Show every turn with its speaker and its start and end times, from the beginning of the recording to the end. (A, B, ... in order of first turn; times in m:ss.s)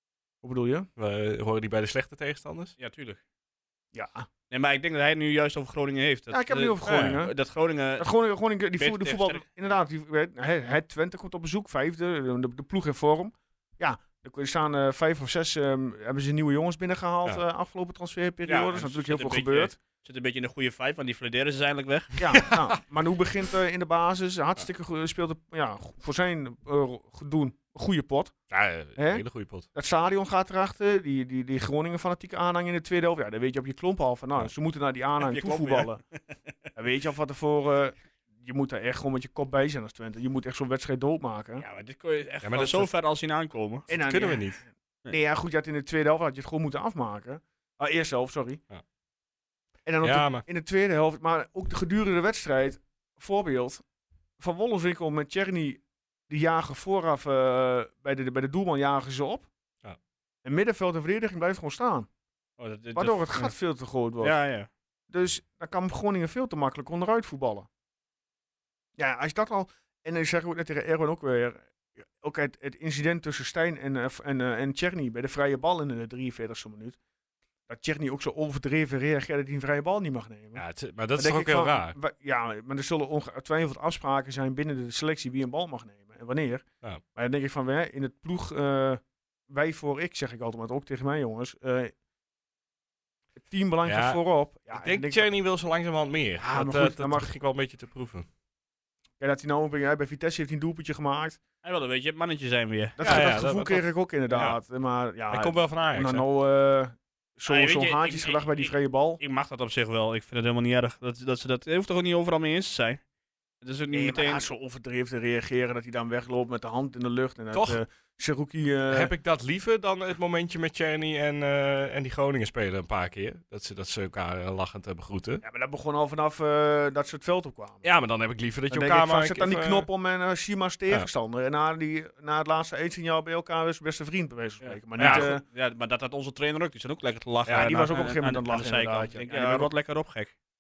0:00.4-0:00.9 A
0:01.0-0:02.7 B
0:02.8-0:03.2 C
0:03.9-0:04.3 A
0:04.5-0:08.1 C
0:06.3-0:07.3 A
0:08.0-0:19.8 A
0:08.8-0:09.4 C
0:18.5-0:22.2 C
0:22.2-0:28.3 A
0:22.3-0:22.8 B
0:28.5-0:29.7 B
0:29.0-0:36.0 A
0:35.2-0:36.4 C
0:36.8-0:41.6 A
0:41.6-0:43.9 C
0:42.4-0:42.9 B
0:43.9-0:48.6 A
0:43.9-0:44.6 B
0:49.9-0:53.8 A
0:50.0-0:50.4 B
0:54.4-0:59.5 A
1:00.4-1:02.1 A
1:02.6-1:03.5 C
1:03.0-1:04.4 A
1:04.2-1:04.7 C
1:05.1-1:07.7 A
1:09.0-1:17.0 A
1:17.7-1:20.6 A
1:20.6-1:22.0 B
1:21.2-1:31.9 A
1:33.4-1:35.3 A
1:33.9-1:38.3 B
1:36.4-1:37.3 A
1:39.2-1:41.4 A
1:41.6-1:43.2 C
1:43.0-1:49.2 A
1:43.0-1:44.6 B
1:45.3-1:46.2 B
1:47.5-1:53.0 C
1:53.6-1:54.4 C
1:53.9-1:59.1 A
1:57.5-1:57.8 B
1:58.9-2:05.4 B
2:05.4-2:07.8 A
2:07.8-2:09.9 B
2:08.7-2:15.4 A
2:14.6-2:20.3 C
2:15.0-2:15.3 B
2:17.6-2:19.7 A